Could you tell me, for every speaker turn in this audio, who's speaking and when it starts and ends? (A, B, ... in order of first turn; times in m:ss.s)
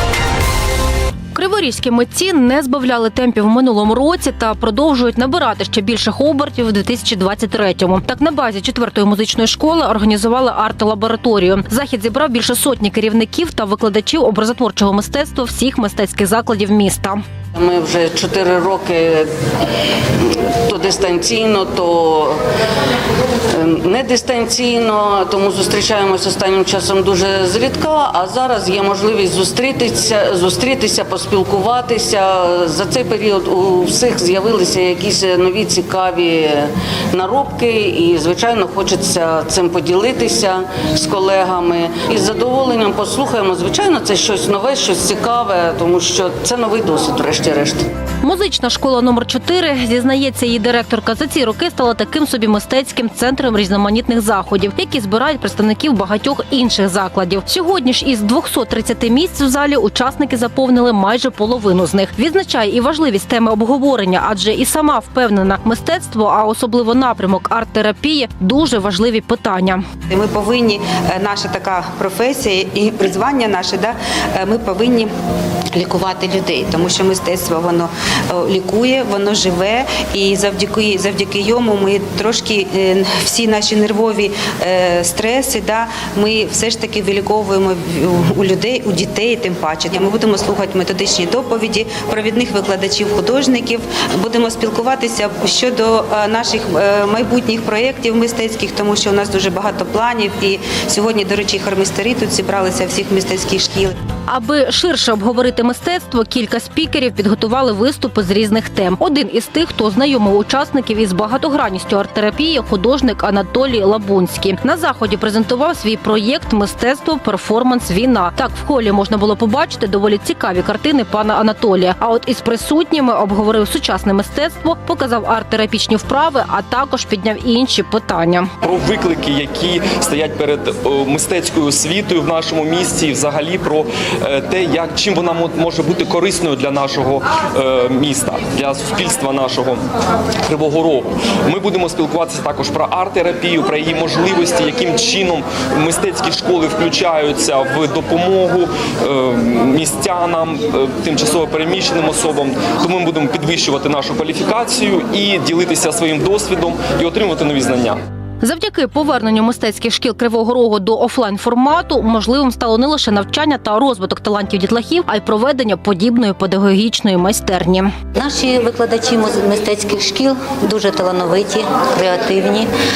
0:01.4-0:17.2 A
0:17.5-0:19.3 B
0:20.2-0:22.4 B
0:23.5-0:47.9 B
0:48.2-1:09.8 A
1:10.1-1:15.1 C
1:15.8-1:43.9 C
1:44.3-2:08.5 A
2:08.6-2:19.8 D
2:20.5-2:38.0 D
2:38.4-2:47.9 A
2:48.1-2:52.7 E